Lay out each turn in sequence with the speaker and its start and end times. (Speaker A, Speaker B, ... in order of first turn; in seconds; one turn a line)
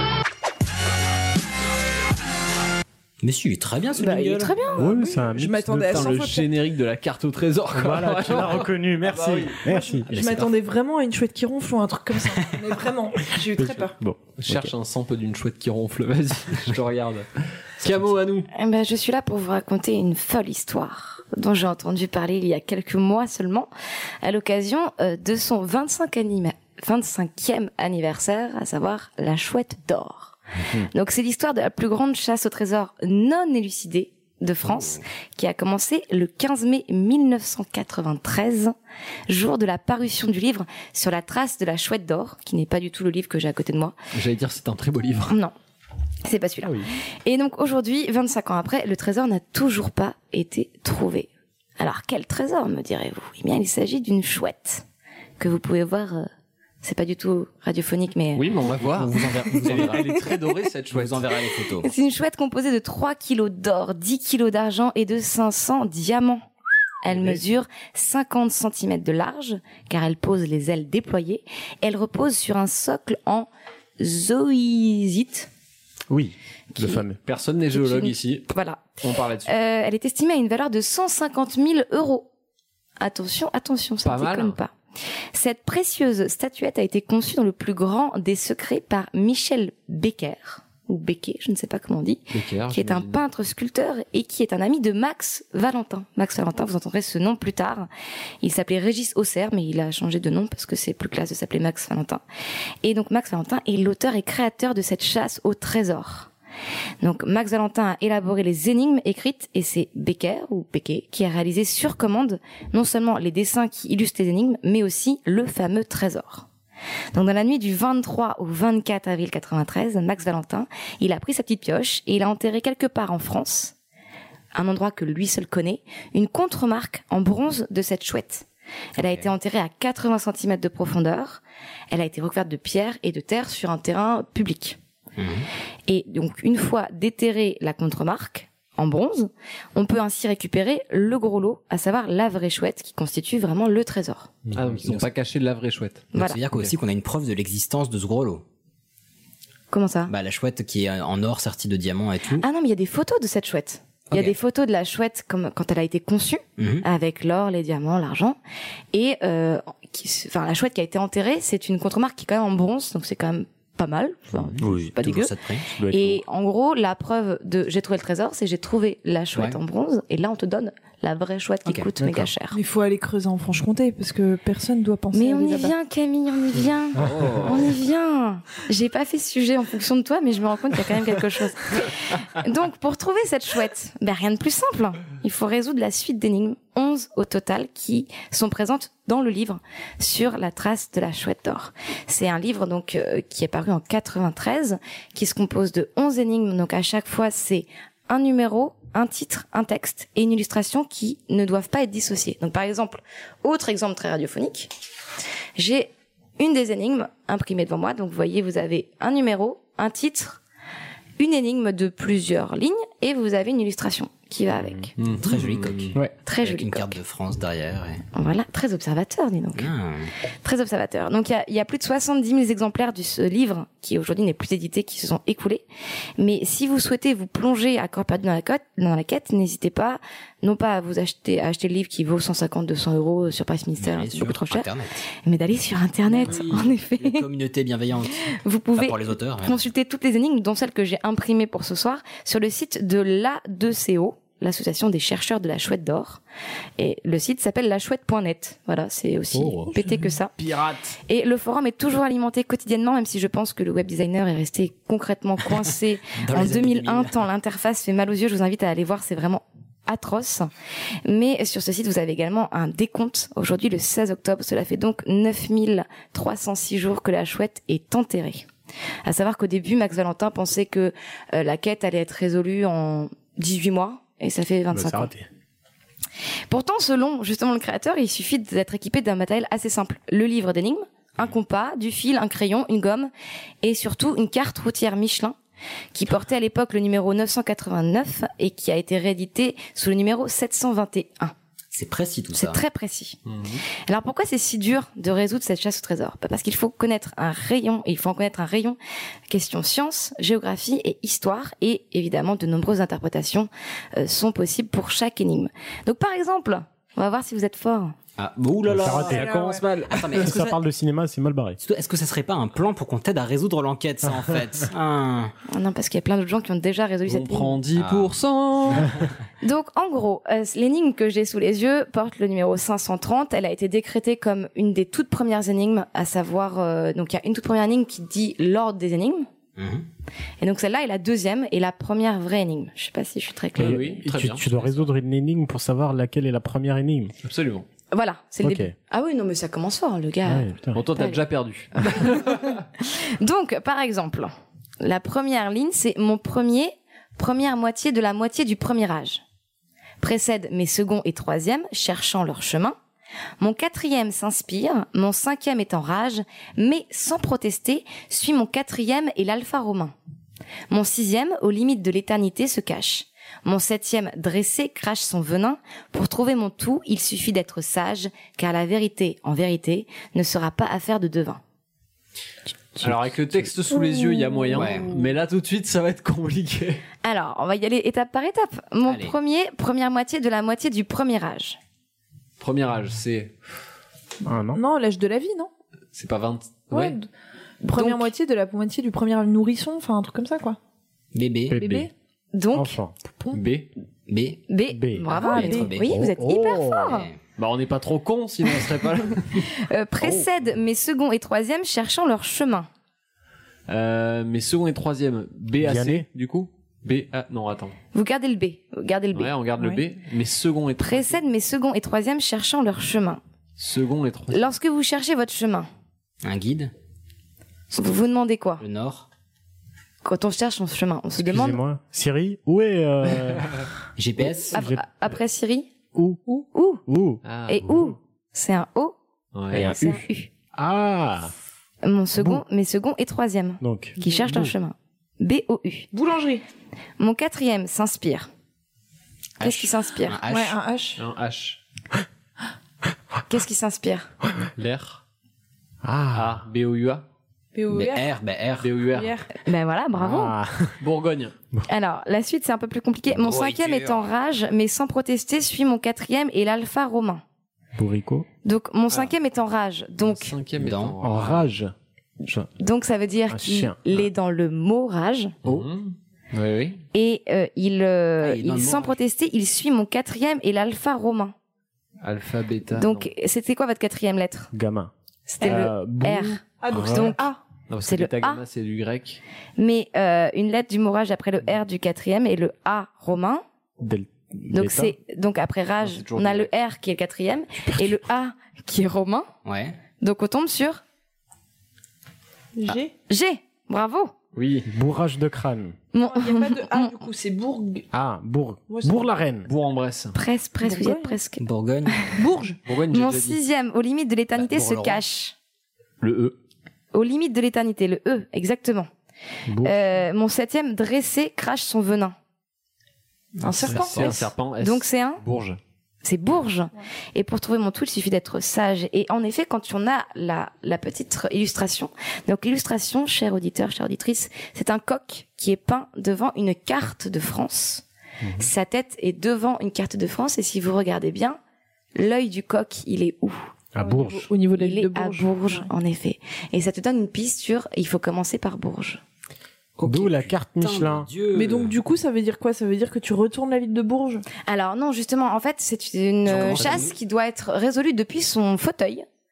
Speaker A: 3.2-4.6
Speaker B: 4.0-6.5
Speaker C: 4.5-4.8
Speaker D: 4.8-6.1
Speaker E: 5.8-9.6
Speaker D: 7.7-10.1
Speaker B: 9.7-13.9
Speaker A: 10.1-10.5
Speaker D: 13.6-14.7
Speaker E: 14.4-18.5
Speaker C: 18.5-23.7
Speaker C: 24.2-30.4
Speaker C: 30.9-38.7
Speaker A: 34.6-35.0
Speaker C: 39.3-43.9
Speaker E: 44.1-45.4
Speaker C: 46.2-54.8
Speaker D: 46.6-46.9
Speaker C: 55.4-56.3
Speaker C: 56.8-58.5
Speaker E: 58.4-61.3
Speaker A: 58.8-60.1
Speaker A: 60.9-61.9
Speaker C: 61.8-66.5
Speaker C: 67.0-75.5
Speaker E: 67.1-67.4
Speaker D: 76.1-77.2
Speaker C: 76.8-77.0
Speaker E: 77.2-78.5
Speaker C: 77.7-82.3
Speaker E: 79.0-79.5
Speaker C: 83.0-84.7
Speaker E: 84.0-84.6
Speaker C: 85.3-97.9
Speaker E: 92.3-93.2
Speaker C: 98.4-102.2
Speaker C: 102.8-106.3
Speaker C: 107.0-116.5
Speaker C: 117.1-123.7
Speaker C: 124.5-128.4
Speaker C: 129.0-134.8
Speaker A: 129.0-129.3
Speaker A: 135.2-135.4
Speaker C: 135.9-144.3
Speaker E: 144.6-146.7
Speaker A: 144.8-145.1
Speaker C: 146.1-146.4
Speaker A: 146.1-148.4
Speaker C: 149.7-150.1
Speaker A: 150.1-152.4
Speaker C: 152.4-158.4
Speaker A: 154.1-154.4
Speaker A: 156.6-156.9
Speaker C: 158.9-172.6
Speaker D: 164.3-164.7
Speaker A: 164.6-165.7
Speaker D: 165.8-166.2
Speaker A: 171.6-171.9
Speaker D: 172.0-172.3
Speaker B: 172.5-175.7
Speaker C: 175.1-204.7
Speaker E: 177.0-177.8
Speaker C: 205.6-210.4
Speaker C: 211.2-214.9
Speaker D: 214.6-214.9
Speaker E: 215.0-216.0
Speaker A: 215.2-218.0
Speaker C: 216.2-217.0
Speaker C: 218.1-219.7
Speaker A: 219.6-220.1
Speaker C: 220.4-225.6
Speaker C: 226.2-234.7
Speaker A: 233.8-235.0
Speaker C: 235.2-237.2
Speaker A: 236.1-239.7
Speaker C: 238.2-246.2
Speaker C: 246.8-250.3
Speaker D: 249.3-249.9
Speaker E: 250.4-250.9
Speaker C: 251.1-260.5
Speaker A: 256.2-257.1
Speaker C: 261.1-268.4
Speaker C: 269.1-275.1
Speaker D: 274.7-275.3
Speaker C: 276.5-283.1
Speaker C: 283.6-285.4
Speaker C: 285.9-291.3
Speaker A: 291.7-292.6
Speaker C: 292.3-293.2
Speaker E: 293.3-293.6
Speaker C: 293.9-298.8
Speaker C: 299.3-307.9
Speaker A: 308.2-309.3
Speaker D: 308.7-311.6
Speaker B: 309.0-309.6
Speaker E: 309.3-309.8
Speaker A: 309.9-310.6
Speaker A: 311.6-315.3
Speaker C: 315.5-317.6
Speaker E: 317.1-319.0
Speaker A: 317.7-318.1
Speaker C: 319.4-329.3
Speaker A: 329.6-329.9
Speaker C: 330.4-334.0
Speaker E: 333.6-334.9
Speaker D: 333.6-337.1
Speaker E: 337.2-337.6
Speaker C: 337.9-341.2
Speaker D: 338.4-338.7
Speaker D: 340.2-340.8
Speaker E: 340.7-342.5
Speaker C: 341.8-349.2
Speaker C: 350.0-352.7
Speaker C: 353.4-359.9
Speaker C: 360.7-371.4
Speaker E: 372.8-376.8
Speaker B: 373.7-375.1
Speaker A: 374.5-374.9
Speaker C: 377.0-381.6
Speaker A: 378.9-379.1
Speaker E: 382.4-383.4
Speaker D: 384.2-384.6
Speaker B: 384.5-385.5
Speaker E: 385.9-387.0
Speaker B: 386.7-387.1
Speaker B: 387.6-390.6
Speaker C: 387.8-388.1
Speaker A: 391.1-391.6
Speaker D: 391.5-391.9
Speaker B: 391.6-391.9
Speaker C: 392.3-392.8
Speaker D: 392.5-392.9
Speaker E: 393.3-393.7
Speaker A: 394.1-394.4
Speaker C: 394.5-397.1
Speaker D: 394.7-395.2
Speaker B: 395.1-395.7
Speaker A: 395.3-396.0
Speaker D: 395.9-397.1
Speaker E: 397.4-399.5
Speaker C: 399.6-402.7
Speaker E: 400.0-400.3
Speaker E: 403.7-407.8
Speaker D: 405.6-406.1
Speaker C: 407.9-409.3
Speaker E: 409.1-411.2
Speaker B: 409.6-409.8
Speaker C: 410.8-413.2
Speaker E: 413.6-414.5
Speaker C: 414.3-415.7
Speaker A: 416.2-416.7
Speaker C: 417.7-418.6
Speaker A: 418.6-419.1
Speaker C: 420.0-421.6
Speaker D: 421.2-423.7
Speaker A: 424.0-424.6
Speaker D: 424.2-424.8
Speaker C: 424.5-425.7
Speaker D: 425.9-427.9
Speaker C: 426.5-426.8
Speaker E: 427.2-427.7
Speaker C: 427.5-428.9
Speaker E: 429.3-429.8
Speaker D: 429.5-430.0
Speaker C: 429.5-430.3
Speaker D: 430.6-431.3
Speaker C: 431.8-435.9
Speaker D: 432.2-432.4
Speaker D: 433.6-434.5
Speaker B: 435.9-436.4
Speaker C: 437.0-438.3
Speaker C: 439.4-440.2
Speaker A: 439.4-440.6
Speaker B: 440.3-441.0
Speaker E: 441.0-441.6
Speaker C: 443.3-444.1
Speaker E: 444.6-445.0
Speaker D: 445.8-446.4
Speaker E: 446.1-447.1
Speaker B: 447.6-448.1
Speaker A: 447.7-448.7
Speaker E: 448.6-449.2
Speaker B: 448.9-449.2
Speaker C: 449.4-450.4
Speaker D: 449.9-450.8
Speaker E: 450.8-451.4
Speaker C: 451.7-457.2
Speaker A: 453.1-454.1
Speaker D: 457.8-458.3
Speaker C: 458.4-460.4
Speaker E: 460.0-461.5
Speaker A: 460.6-460.9
Speaker D: 461.0-462.5
Speaker C: 462.6-465.4
Speaker D: 463.3-464.1
Speaker E: 465.4-466.8
Speaker C: 466.9-471.3
Speaker A: 468.2-468.9
Speaker E: 472.0-473.1
Speaker C: 472.7-474.5
Speaker D: 474.5-477.2
Speaker C: 475.3-477.2
Speaker B: 475.4-475.7
Speaker B: 476.6-477.4
Speaker E: 477.7-479.2
Speaker C: 477.9-478.4
Speaker C: 479.6-483.4
Speaker D: 483.8-484.9
Speaker C: 484.5-489.3
Speaker E: 485.8-486.5
Speaker A: 489.4-489.8
Speaker C: 490.0-490.8
Speaker B: 492.6-492.9
Speaker C: 492.7-494.1
Speaker E: 494.4-494.7
Speaker D: 494.6-495.8
Speaker C: 495.9-497.0
Speaker B: 496.0-497.9
Speaker D: 497.9-499.5
Speaker B: 498.7-499.1
Speaker E: 499.4-500.2
Speaker C: 500.1-501.4
Speaker B: 500.6-501.1
Speaker A: 501.4-502.0
Speaker B: 502.2-502.6
Speaker E: 502.6-503.4
Speaker C: 502.9-505.3
Speaker E: 504.4-505.0
Speaker E: 506.0-506.4
Speaker C: 506.9-508.9
Speaker D: 509.5-510.0
Speaker C: 509.6-512.1
Speaker A: 513.4-514.1
Speaker C: 513.4-515.2
Speaker E: 513.6-515.6
Speaker C: 516.0-527.8
Speaker C: 528.4-531.4
Speaker C: 532.0-533.4
Speaker D: 533.7-534.3
Speaker B: 533.8-535.7
Speaker C: 534.6-539.0
Speaker A: 539.8-541.8
Speaker D: 539.8-541.1
Speaker B: 541.3-544.2
Speaker C: 544.4-549.0
Speaker A: 546.2-546.9